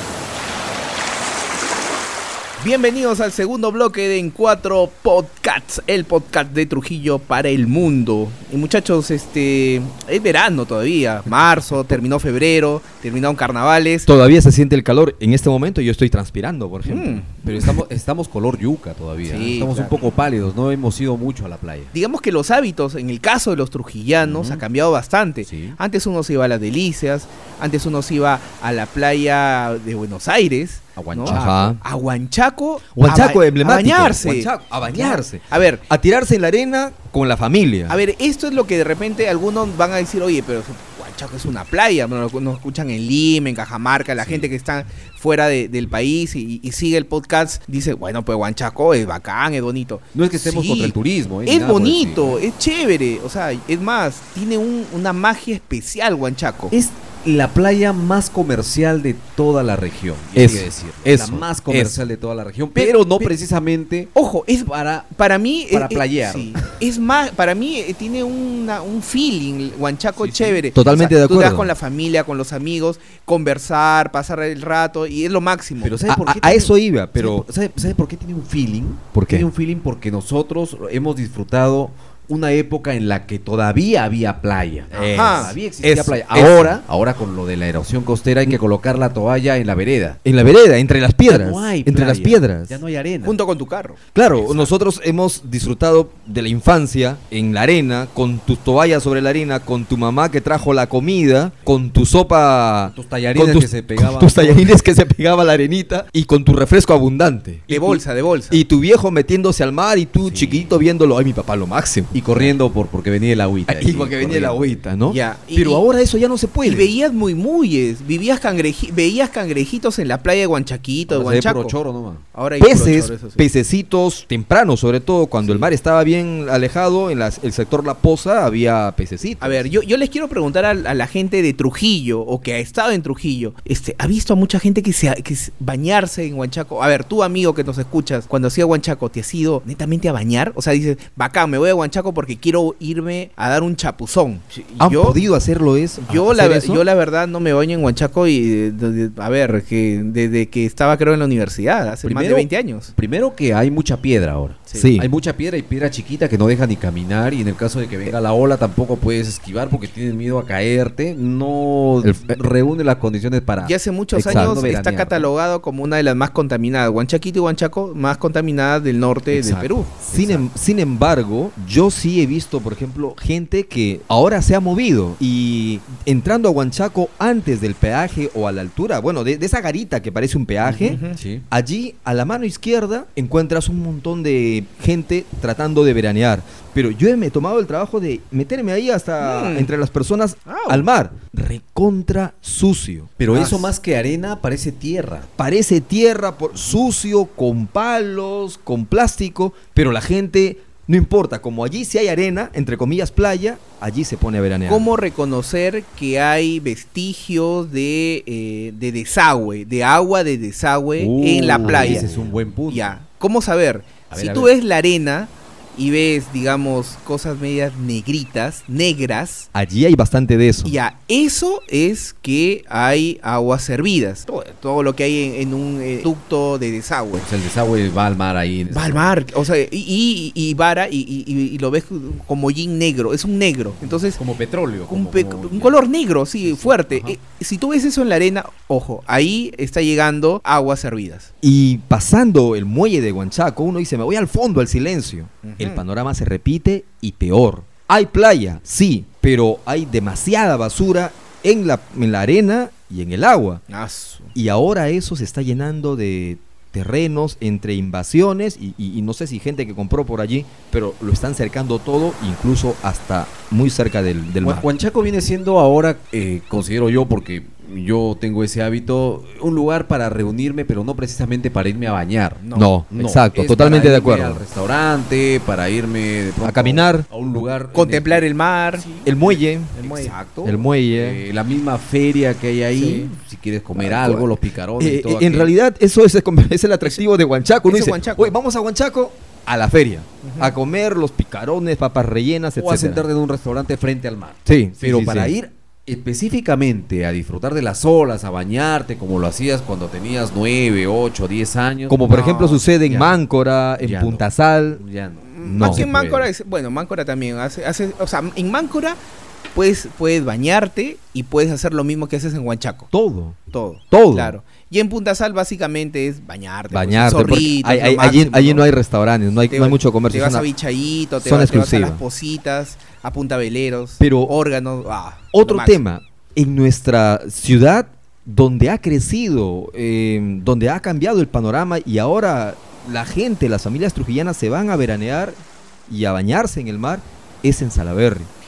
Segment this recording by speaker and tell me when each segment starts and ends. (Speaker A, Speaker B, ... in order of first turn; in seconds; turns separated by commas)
Speaker A: 2.6-14.1, Speaker B: 14.1-17.3, Speaker A: 16.9-17.4, Speaker C: 17.4-21.9, Speaker A: 19.2-20.0, Speaker A: 21.9-35.8, Speaker C: 24.2-24.6, Speaker C: 25.5-25.8, Speaker C: 31.0-31.7, Speaker B: 31.3-31.8, Speaker B: 33.0-38.0, Speaker A: 37.9-51.0, Speaker C: 44.2-44.5, Speaker C: 50.1-52.4, Speaker A: 51.5-56.7, Speaker C: 56.7-64.1, Speaker B: 60.4-62.0, Speaker A: 62.8-63.3, Speaker A: 64.1-76.0, Speaker C: 64.7-65.1, Speaker C: 65.7-66.6, Speaker C: 70.2-70.6, Speaker B: 70.8-71.7, Speaker C: 75.8-90.2, Speaker B: 76.1-77.5, Speaker B: 79.1-79.5, Speaker B: 84.9-86.8, Speaker A: 84.9-85.5, Speaker B: 90.2-92.8, Speaker C: 91.3-93.3, Speaker A: 93.2-94.0, Speaker B: 94.2-112.5, Speaker C: 94.3-94.7, Speaker C: 102.8-104.8, Speaker A: 107.7-108.6, Speaker C: 110.2-110.8, Speaker C: 112.1-114.7, Speaker B: 113.7-116.9, Speaker A: 115.1-115.8, Speaker A: 116.6-121.8, Speaker C: 121.1-122.2, Speaker A: 122.3-123.4, Speaker B: 122.6-129.7, Speaker A: 129.4-145.2, Speaker B: 144.8-146.8, Speaker A: 146.0-152.9, Speaker C: 152.0-165.3, Speaker B: 154.8-155.1, Speaker B: 162.0-162.4, Speaker A: 163.6-169.9, Speaker B: 164.2-164.7, Speaker C: 169.3-170.5, Speaker B: 170.0-193.1, Speaker C: 180.6-181.4, Speaker A: 180.8-181.2, Speaker A: 189.2-189.7, Speaker A: 190.5-190.9, Speaker C: 193.2-195.3, Speaker A: 193.3-193.7, Speaker B: 195.4-204.9, Speaker A: 204.7-212.1, Speaker C: 211.0-213.0, Speaker B: 211.6-212.3, Speaker A: 212.7-219.5, Speaker C: 214.1-214.5, Speaker B: 219.5-220.8, Speaker A: 220.7-227.3, Speaker C: 227.2-229.2, Speaker A: 228.7-234.2, Speaker C: 234.1-235.8, Speaker A: 234.9-241.3, Speaker C: 236.4-237.2, Speaker B: 241.4-253.6, Speaker A: 245.4-245.8, Speaker A: 253.7-254.3, Speaker B: 254.3-264.7, Speaker C: 264.4-285.5, Speaker A: 272.4-272.7, Speaker B: 272.6-274.4, Speaker B: 276.4-277.1, Speaker A: 277.7-278.9, Speaker B: 279.1-279.8, Speaker A: 279.8-280.1, Speaker B: 280.4-281.2, Speaker A: 282.8-283.1, Speaker B: 283.8-293.1, Speaker A: 287.6-288.4, Speaker A: 290.2-290.6, Speaker C: 292.6-302.1, Speaker B: 294.5-295.4, Speaker B: 301.9-304.8, Speaker A: 302.1-302.6, Speaker C: 302.8-303.2, Speaker C: 303.8-304.2, Speaker C: 304.8-306.3, Speaker A: 305.2-309.0, Speaker B: 305.4-305.9, Speaker A: 309.6-312.9, Speaker B: 312.9-313.4, Speaker A: 313.5-318.7, Speaker B: 313.9-314.4, Speaker B: 316.7-320.5, Speaker A: 319.5-325.8, Speaker B: 321.2-322.0, Speaker B: 324.0-324.3, Speaker B: 325.3-338.3